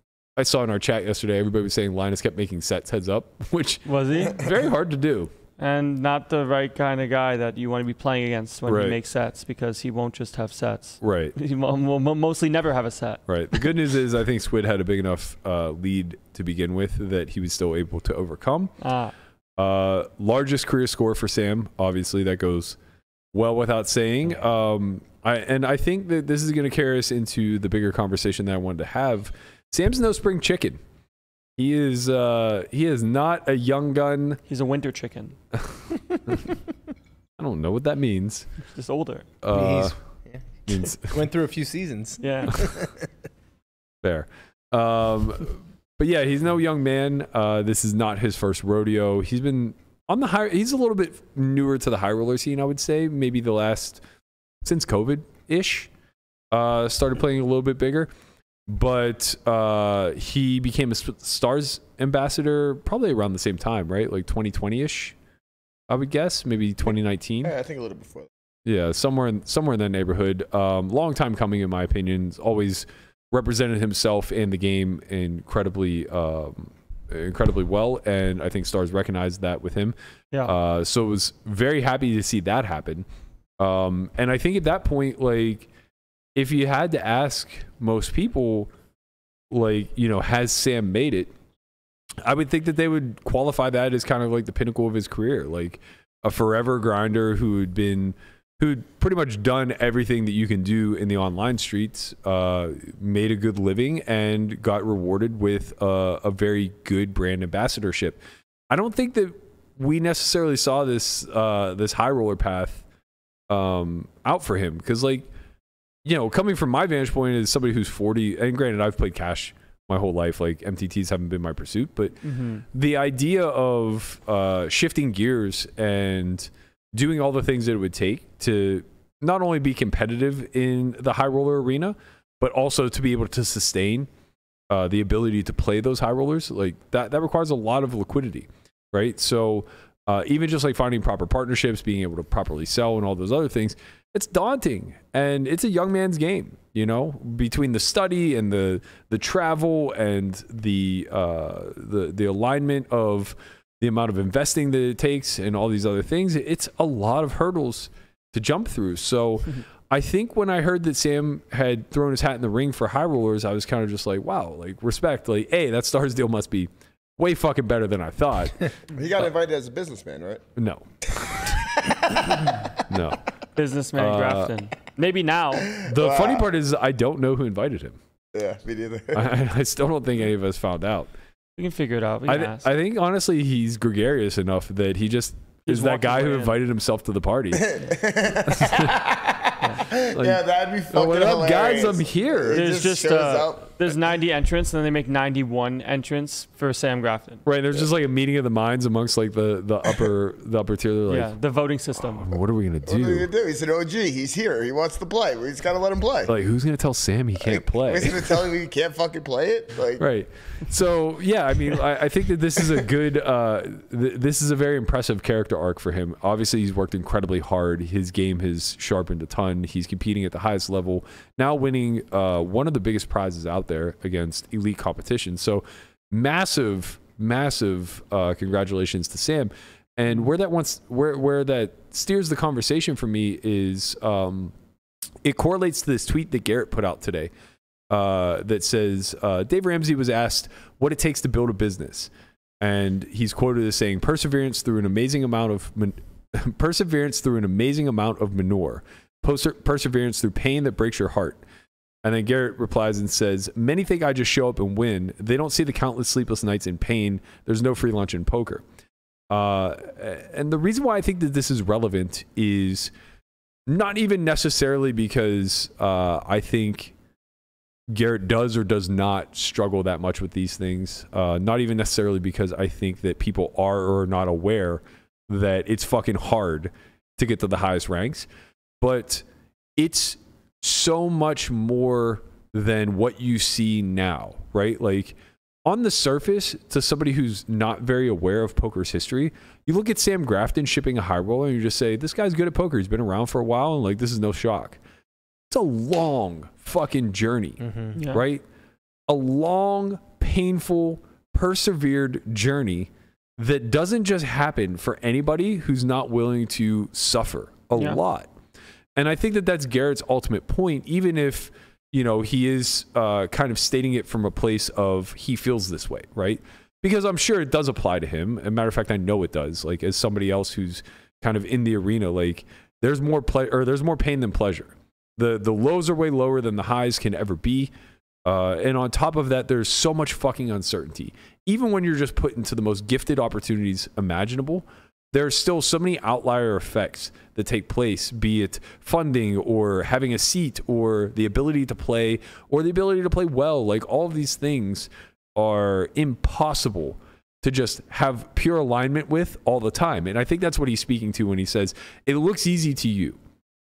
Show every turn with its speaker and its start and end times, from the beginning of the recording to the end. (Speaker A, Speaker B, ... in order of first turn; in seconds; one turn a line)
Speaker A: 0.3-5.3
Speaker B: 3.9-4.4
Speaker B: 5.6-13.2
Speaker A: 8.7-9.0
Speaker A: 11.0-11.3
Speaker A: 13.3-18.7
Speaker B: 18.8-19.1
Speaker A: 19.6-22.8
Speaker A: 23.3-30.8
Speaker A: 31.6-34.4
Speaker B: 34.5-35.4
Speaker A: 35.5-36.5
Speaker A: 37.4-38.5
Speaker B: 38.7-39.3
Speaker A: 39.4-39.9
Speaker C: 39.5-43.1
Speaker A: 40.7-41.2
Speaker B: 42.2-42.5
Speaker A: 44.0-54.0
Speaker A: 54.6-55.9
Speaker A: 56.5-58.1
Speaker A: 58.7-65.2
Speaker A: 65.9-67.5
Speaker D: 66.8-68.3
Speaker A: 68.7-83.0
Speaker A: 83.6-85.7
Speaker A: 86.3-88.7
Speaker A: 89.5-91.3
Speaker A: 92.2-112.8
Speaker A: 113.5-115.3
Speaker A: 116.0-134.1
Speaker B: 122.2-122.6
Speaker A: 134.7-169.3
Speaker D: 168.9-170.4
Speaker A: 170.6-171.4
Speaker D: 171.4-172.5
Speaker A: 172.9-173.2
Speaker B: 173.5-175.8
Speaker A: 173.9-174.5
Speaker D: 175.7-176.4
Speaker A: 175.8-178.0
Speaker D: 178.3-179.3
Speaker A: 179.1-181.1
Speaker B: 181.6-182.7
Speaker A: 182.2-187.7
Speaker B: 185.7-186.5
Speaker D: 187.5-194.0
Speaker A: 188.5-188.9
Speaker A: 189.9-192.6
Speaker B: 192.5-197.4
Speaker A: 197.4-201.3
Speaker B: 201.1-202.3
Speaker A: 202.0-203.3
Speaker D: 202.8-206.3
Speaker A: 206.3-208.4
Speaker D: 207.4-210.0
Speaker A: 210.0-234.5
Speaker A: 235.2-237.3
Speaker A: 237.9-251.4
Speaker A: 252.0-258.6
Speaker A: 259.3-262.9
Speaker A: 263.7-266.9
Speaker A: 267.9-278.3
Speaker A: 278.8-294.8
Speaker A: 295.5-298.4
Speaker C: 297.6-298.0
Speaker B: 297.9-298.2
Speaker A: 299.1-308.3
Speaker A: 308.9-327.7
Speaker A: 328.2-353.2